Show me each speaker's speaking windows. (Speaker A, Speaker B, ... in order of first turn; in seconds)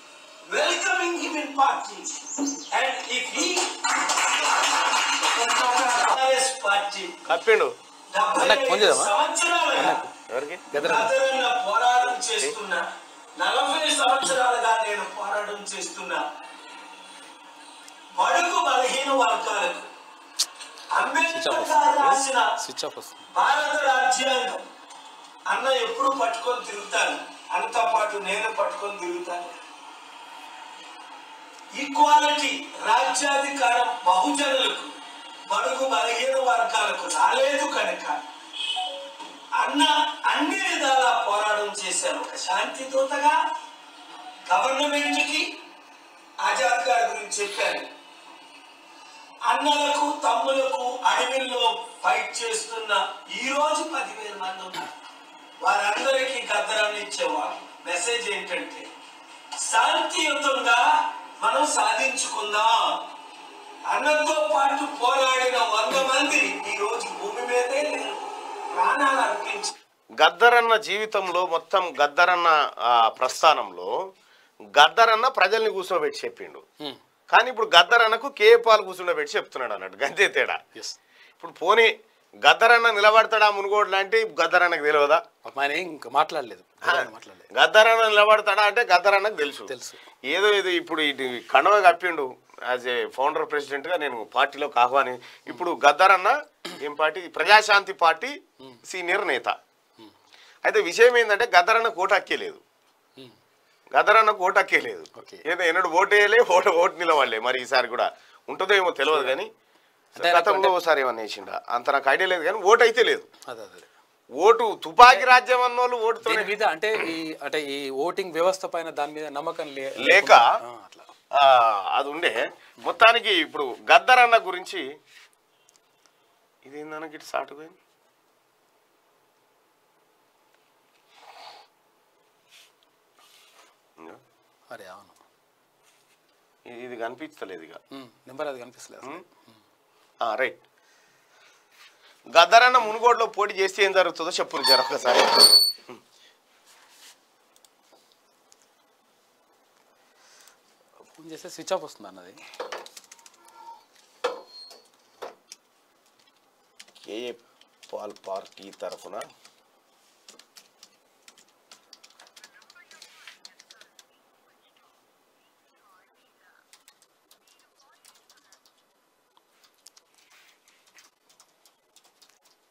Speaker A: 0.5-7.2, 8.1-10.0, 10.8-12.8, 13.4-16.2, 18.1-19.9, 20.9-22.4, 23.3-24.6, 25.5-29.5, 31.8-34.9, 35.5-38.2, 39.6-43.4, 44.5-45.5, 46.4-47.9, 49.5-54.9, 55.6-58.9, 59.6-60.8, 61.4-62.8, 63.9-69.7
Speaker B: 7.2-7.7, 10.3-10.6, 70.2-73.9, 74.7-76.6, 77.3-80.6, 81.4-81.9, 82.4-85.2, 86.8-89.7, 90.3-99.5, 100.6-102.6, 103.9-109.5, 110.2-113.3, 114.4-116.5, 120.0-120.5, 121.3-124.8, 126.6-127.8, 136.7-137.8, 140.2-140.6, 142.3-146.0, 157.0-159.2
Speaker C: 8.4-9.1, 9.8-10.1, 10.7-11.1, 21.3-23.3, 85.4-87.5, 89.7-90.0, 105.1-105.4, 109.1-109.4, 110.2-110.7, 113.5-113.9, 116.2-121.1, 134.7-135.2, 137.9-139.6, 151.2-152.4